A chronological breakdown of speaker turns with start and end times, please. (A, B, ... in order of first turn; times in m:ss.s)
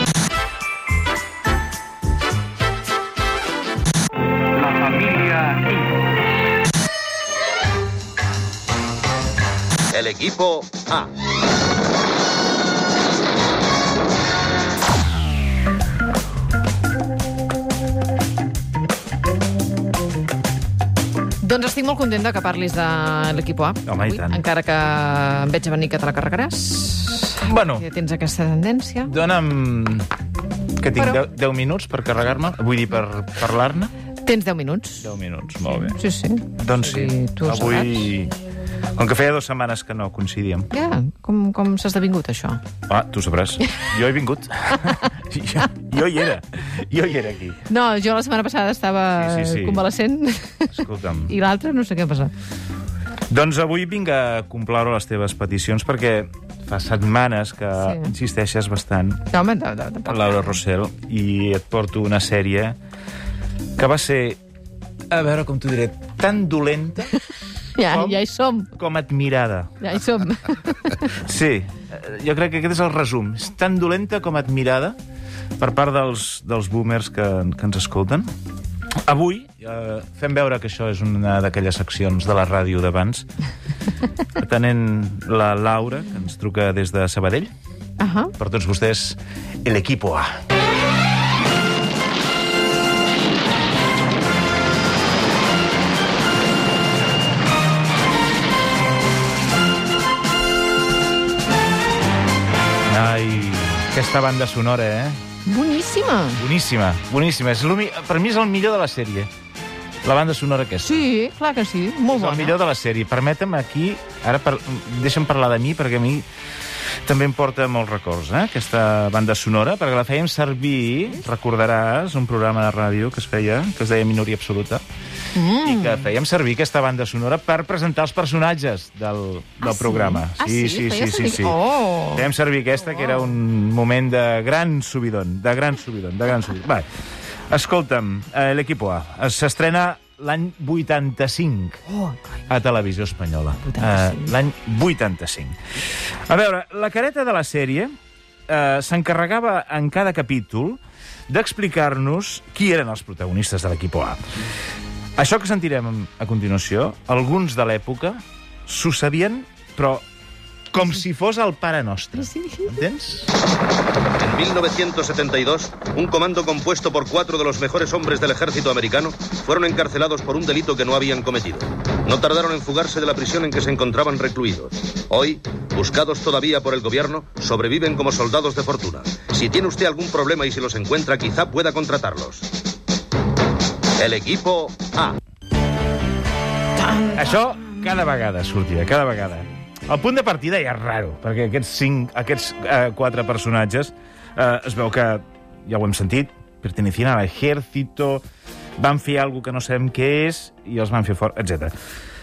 0:09.9-0:11.1 A
0:21.4-0:29.1 B
0:23.8-0:24.4 C
0:27.4-0:27.8 C
0:29.0-0:30.1 C
0:30.8-0:33.9 C
0:31.0-0:31.2 B
0:34.2-0:35.1 B
0:35.0-0:36.0 C
0:35.8-0:38.1 B
0:36.5-0:38.3 C
0:39.0-0:40.7 C
0:40.7-0:42.6 B
0:42.9-0:47.6 C
0:47.7-0:50.7 B
0:49.2-0:49.9 C
0:50.7-0:51.3 C
0:51.3-0:52.3 B
0:53.3-0:59.2 C
0:57.8-0:58.1 B
0:59.3-1:00.4 B
1:00.0-1:02.8 C
1:03.8-1:04.4 C
1:05.1-1:07.2 C
1:07.7-1:08.7 B
1:07.9-1:09.8 C
1:09.8-1:11.2 B
1:11.1-1:15.0 C
1:15.6-1:18.3 C
1:19.0-1:23.3 C
1:24.4-1:27.5 C
1:28.0-1:28.3 B
1:28.4-1:30.3 C
1:42.9-1:45.2 C
1:45.4-1:46.4 B
1:46.4-1:49.3 C
1:50.0-1:51.1 C
1:50.8-1:52.6 B
1:52.1-1:56.2 C
1:57.0-2:04.8 C
2:05.3-2:06.1 B
2:05.6-2:11.6 C
2:09.6-2:12.3 B
2:12.1-2:16.9 C
2:17.5-2:21.8 C
2:22.0-2:22.3 B
2:22.5-2:25.6 C
2:23.6-2:24.3 B
2:26.3-2:27.9 C
2:28.5-2:34.2 C
2:35.2-2:40.0 C
2:40.7-2:43.4 C
2:42.2-2:42.7 B
2:44.2-3:02.5 A
3:04.0-3:05.2 A
3:06.8-3:07.2 B
3:07.1-3:18.2 C
3:18.8-3:21.7 C